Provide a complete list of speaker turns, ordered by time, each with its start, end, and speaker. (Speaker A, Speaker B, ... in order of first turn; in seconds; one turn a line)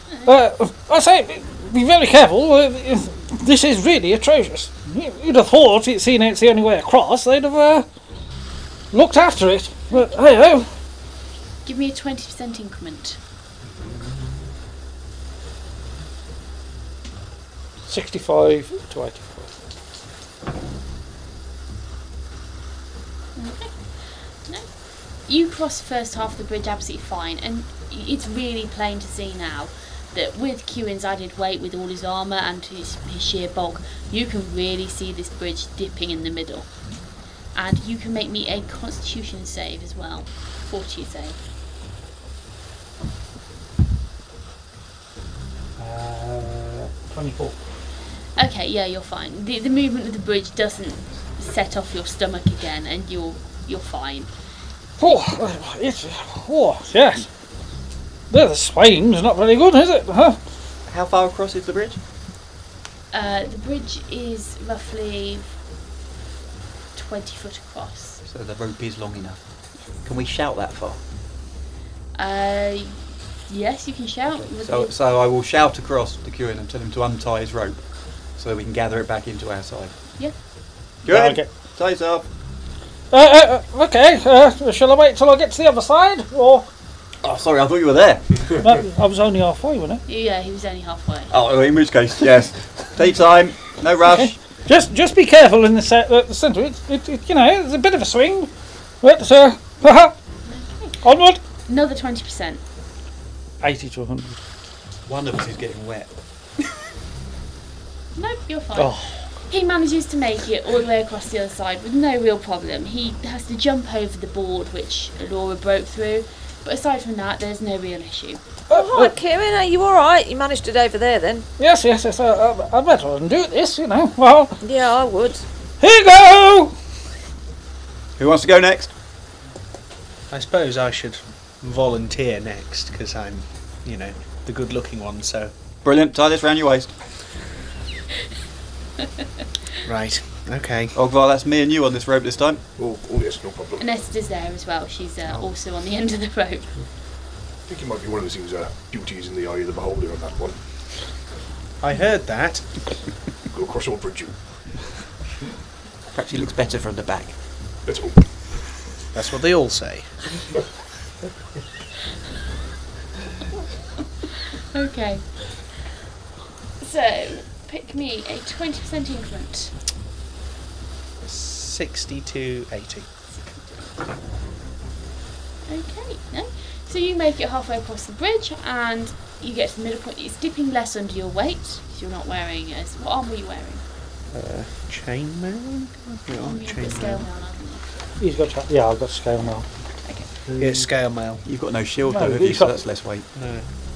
Speaker A: 0.2-7.9
Speaker A: 8.9-10.7
Speaker B: 11.6-13.2
Speaker A: 17.8-19.5
Speaker B: 23.4-36.8
Speaker B: 37.5-41.4
Speaker A: 45.8-47.6
Speaker B: 48.4-54.3
Speaker A: 55.0-57.3
Speaker A: 58.3-60.4
Speaker C: 60.9-62.0
Speaker B: 63.1-65.6
Speaker B: 66.9-68.2
Speaker C: 68.2-71.0
Speaker B: 72.1-74.9
Speaker C: 74.3-79.9
Speaker C: 81.0-82.2
Speaker A: 81.1-81.6
Speaker A: 83.1-86.7
Speaker C: 87.2-88.5
Speaker A: 88.6-90.0
Speaker B: 90.0-91.3
Speaker C: 91.3-94.3
Speaker A: 94.0-100.2
Speaker B: 100.5-101.0
Speaker A: 101.0-101.4
Speaker B: 101.6-102.6
Speaker A: 103.6-104.4
Speaker C: 105.0-106.1
Speaker B: 108.2-118.4
Speaker A: 108.7-109.3
Speaker A: 118.7-119.1
Speaker D: 118.7-121.5
Speaker A: 121.6-124.6
Speaker D: 124.6-125.4
Speaker A: 125.8-126.8
Speaker C: 128.2-128.9
Speaker E: 130.3-135.5
Speaker C: 135.8-136.9
Speaker E: 139.8-140.9
Speaker C: 140.9-142.6
Speaker F: 142.8-143.9
Speaker B: 143.8-146.8
Speaker F: 147.6-150.6
Speaker E: 151.8-152.7
Speaker F: 153.5-154.4
Speaker C: 156.1-157.4
Speaker F: 157.8-158.6
Speaker E: 159.1-160.2
Speaker B: 164.7-165.6
Speaker B: 166.8-169.8
Speaker E: 171.2-173.1
Speaker B: 173.3-174.0
Speaker B: 175.7-183.8
Speaker E: 184.3-187.2
Speaker B: 186.4-187.8
Speaker A: 188.2-189.7
Speaker B: 190.0-190.3
Speaker A: 190.5-190.9
Speaker E: 190.6-191.4
Speaker C: 191.4-193.3
Speaker A: 192.1-192.8
Speaker E: 193.3-193.6